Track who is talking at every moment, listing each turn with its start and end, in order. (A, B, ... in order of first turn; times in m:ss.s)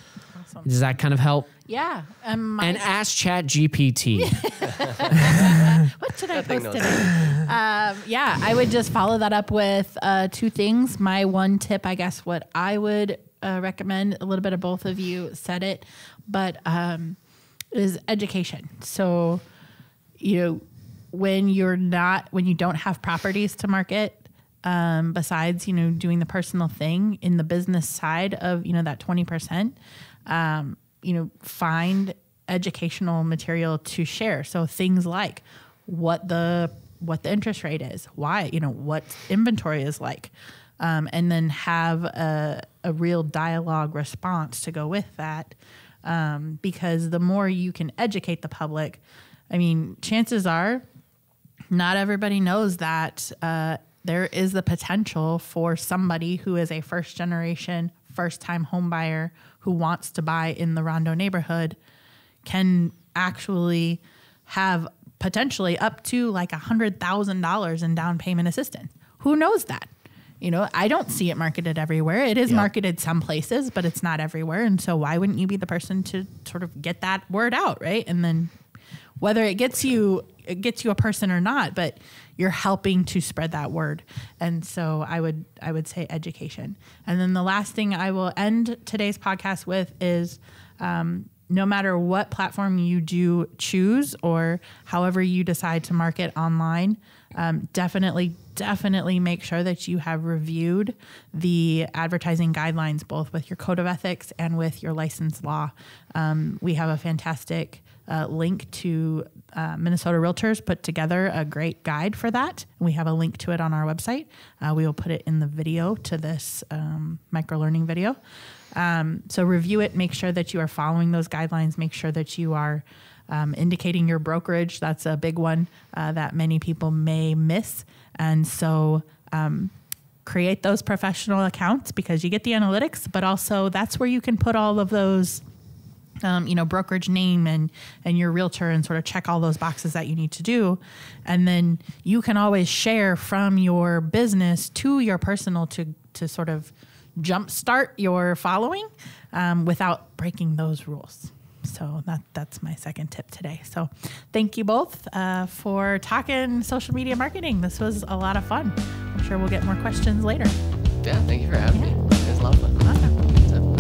0:00.3-0:00.7 A
0:00.6-0:01.5 B
0:01.7-0:02.9 A
0:02.6-0:04.4 B
0:04.2-0:17.2 A
0:05.1-0:05.5 B
0:06.3-0:07.4 C
0:17.7-0:19.4 A
0:20.2-0:50.8 A
0:51.7-1:01.8 A
1:02.4-1:09.9 A
1:10.4-1:18.5 A
1:19.2-1:58.2 A
1:58.7-2:09.7 A
2:10.2-2:15.4 A
2:16.2-2:40.6 A
2:41.0-2:43.7 C
2:42.8-2:43.2 A